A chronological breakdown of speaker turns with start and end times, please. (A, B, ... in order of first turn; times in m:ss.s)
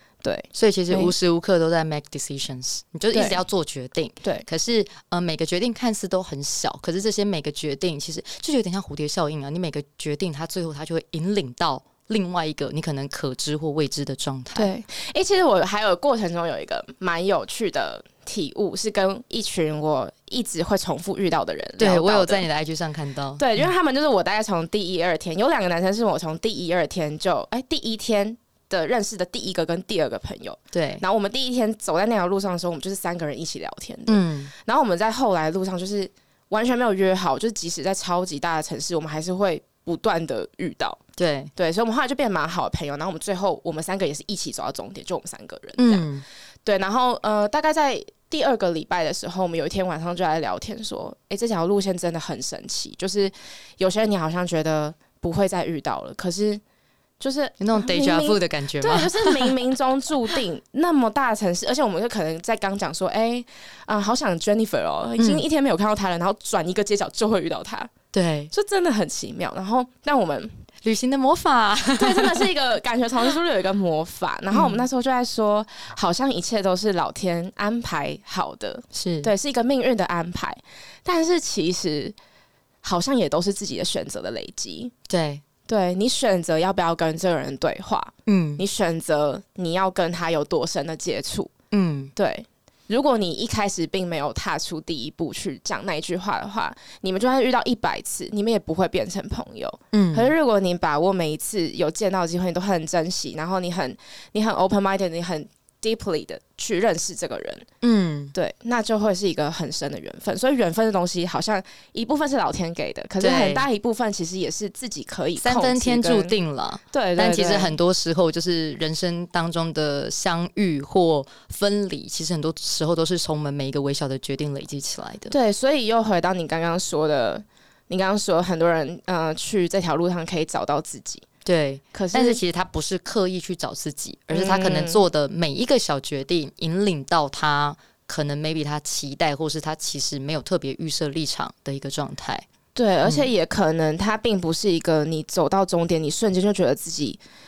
0:00.2-0:01.1 A
0:00.5-0:14.7 B
0:03.1-0:03.4 A
0:14.6-0:22.5 A
0:21.8-0:23.7 B
0:23.4-0:41.0 A
0:30.7-0:31.0 B
0:34.1-0:34.5 B
0:41.2-0:41.5 B
0:41.6-0:46.1 A
0:45.8-0:46.2 B
0:46.6-0:56.6 A
0:57.2-1:07.9 A
0:57.6-0:59.6 B
1:05.2-1:05.4 B
1:08.1-1:08.5 B
1:08.5-1:10.6 A
1:10.8-1:12.5 B
1:12.0-1:22.2 A
1:14.5-1:14.8 B
1:18.9-1:19.3 B
1:22.8-1:24.9 A
1:25.1-1:25.4 B
1:25.7-1:31.5 A
1:28.3-1:28.6 B
1:31.7-1:32.1 B
1:32.2-1:47.7 A
1:39.9-1:40.3 B
1:47.8-1:48.3 B
1:48.3-1:56.3 A
1:53.2-1:53.7 B
1:55.4-2:05.3 B
1:56.9-1:57.8 A
2:05.3-2:11.3 A
2:11.4-2:22.5 B
2:11.9-2:12.4 A
2:14.3-2:15.0 A
2:22.8-2:27.2 A